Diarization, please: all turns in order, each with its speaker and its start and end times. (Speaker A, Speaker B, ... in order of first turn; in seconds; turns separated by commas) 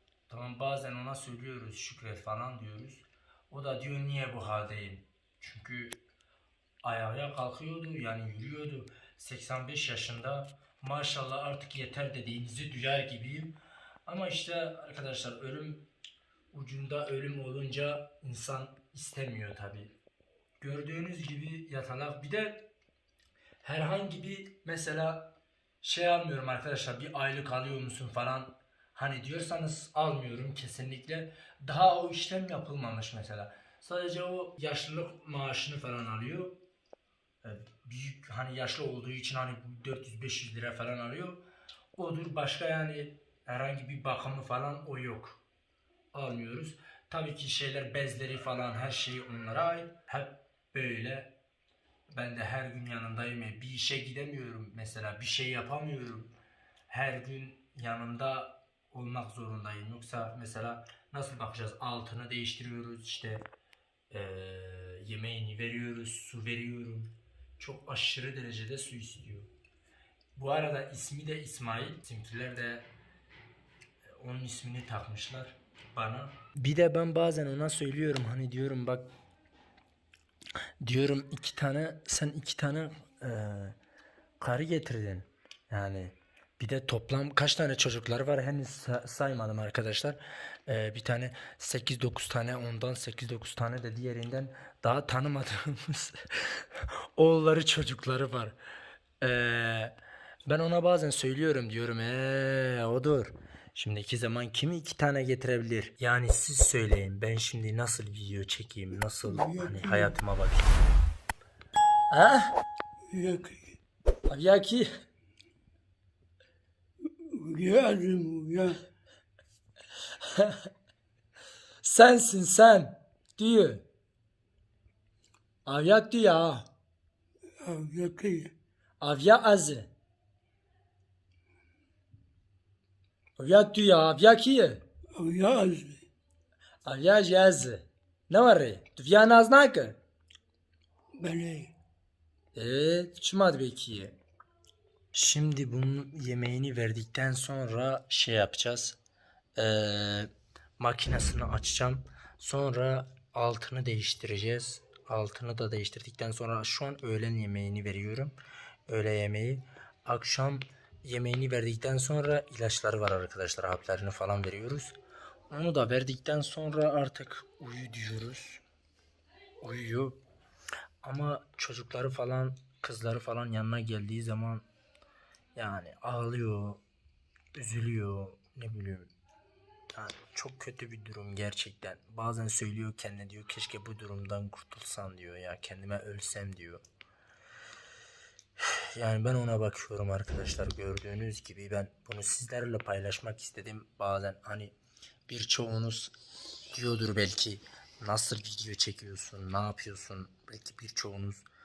Speaker A: 0.3-6.0, Speaker A: 6.8-13.5, Speaker A: 14.1-15.8, Speaker A: 16.5-19.9, Speaker A: 20.6-22.7, Speaker A: 23.6-36.6, Speaker A: 37.4-41.4, Speaker A: 42.0-45.4, Speaker A: 46.1-51.3, Speaker A: 52.1-56.3, Speaker A: 56.9-63.4, Speaker A: 64.1-69.5, Speaker A: 70.3-72.9, Speaker A: 74.0-79.1, Speaker A: 80.8-83.8, Speaker A: 84.4-98.6, Speaker A: 99.2-100.0, Speaker A: 100.5-110.8, Speaker B: 109.3-110.1, Speaker A: 112.1-112.6, Speaker B: 113.1-113.8, Speaker A: 114.3-114.9, Speaker B: 117.2-118.8, Speaker A: 120.2-120.6, Speaker A: 121.8-123.8, Speaker A: 125.7-126.7, Speaker B: 127.6-128.5, Speaker A: 129.0-129.9, Speaker A: 133.4-134.8, Speaker B: 135.1-136.1, Speaker A: 136.8-140.0, Speaker B: 141.2-141.7, Speaker A: 142.5-144.2, Speaker A: 145.1-149.0, Speaker A: 149.6-158.4, Speaker A: 158.9-164.9, Speaker A: 165.5-168.6, Speaker A: 169.6-170.2, Speaker A: 171.0-174.7, Speaker A: 175.6-176.8, Speaker A: 177.6-179.1, Speaker A: 179.9-186.8, Speaker A: 188.6-194.7, Speaker A: 195.3-196.1, Speaker A: 196.7-201.4